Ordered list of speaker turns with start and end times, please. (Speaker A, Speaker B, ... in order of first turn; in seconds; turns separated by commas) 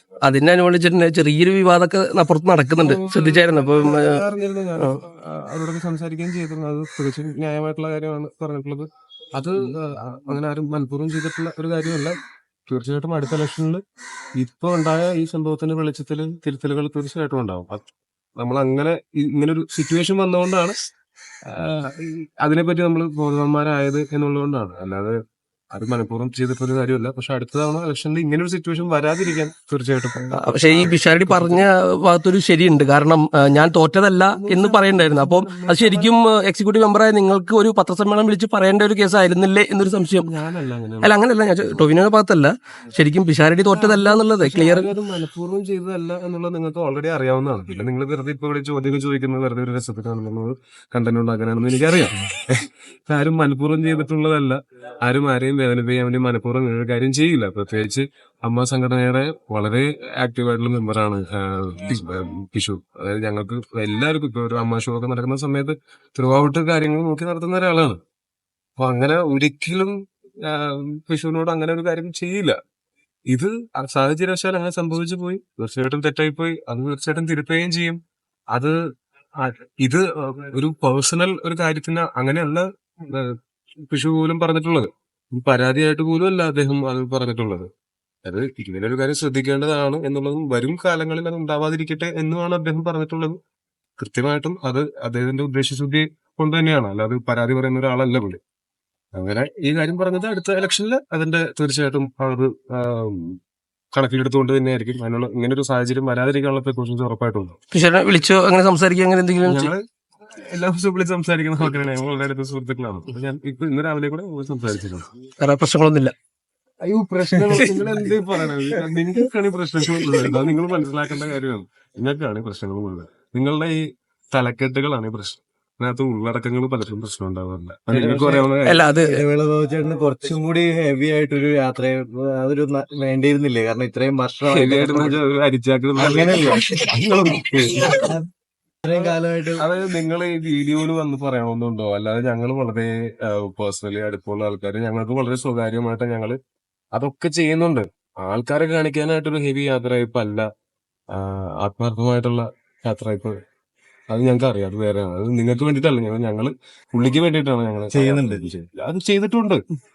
Speaker A: 0.2-4.2, Speaker B: 2.8-12.2, Speaker B: 12.7-13.8, Speaker B: 14.4-17.8, Speaker B: 18.4-20.8, Speaker B: 21.5-25.2, Speaker B: 25.7-31.6, Speaker A: 30.3-40.3, Speaker B: 34.3-36.1, Speaker B: 40.2-41.1, Speaker A: 41.0-44.9, Speaker B: 43.7-68.0, Speaker B: 68.8-72.6, Speaker B: 73.3-78.0, Speaker B: 79.4-83.3, Speaker B: 83.9-87.7, Speaker B: 88.2-93.4, Speaker B: 94.0-98.4, Speaker B: 99.1-103.4, Speaker B: 103.9-107.5, Speaker A: 107.7-109.7, Speaker B: 109.4-109.8, Speaker B: 110.4-115.1, Speaker A: 115.4-116.1, Speaker B: 116.9-128.8, Speaker C: 117.1-117.7, Speaker C: 127.9-135.2, Speaker A: 128.6-129.2, Speaker B: 134.5-138.0, Speaker C: 136.0-136.6, Speaker C: 137.9-138.2, Speaker C: 138.8-139.6, Speaker B: 138.9-146.3, Speaker B: 146.9-150.4, Speaker B: 151.1-153.4, Speaker B: 154.1-159.6, Speaker C: 157.9-158.5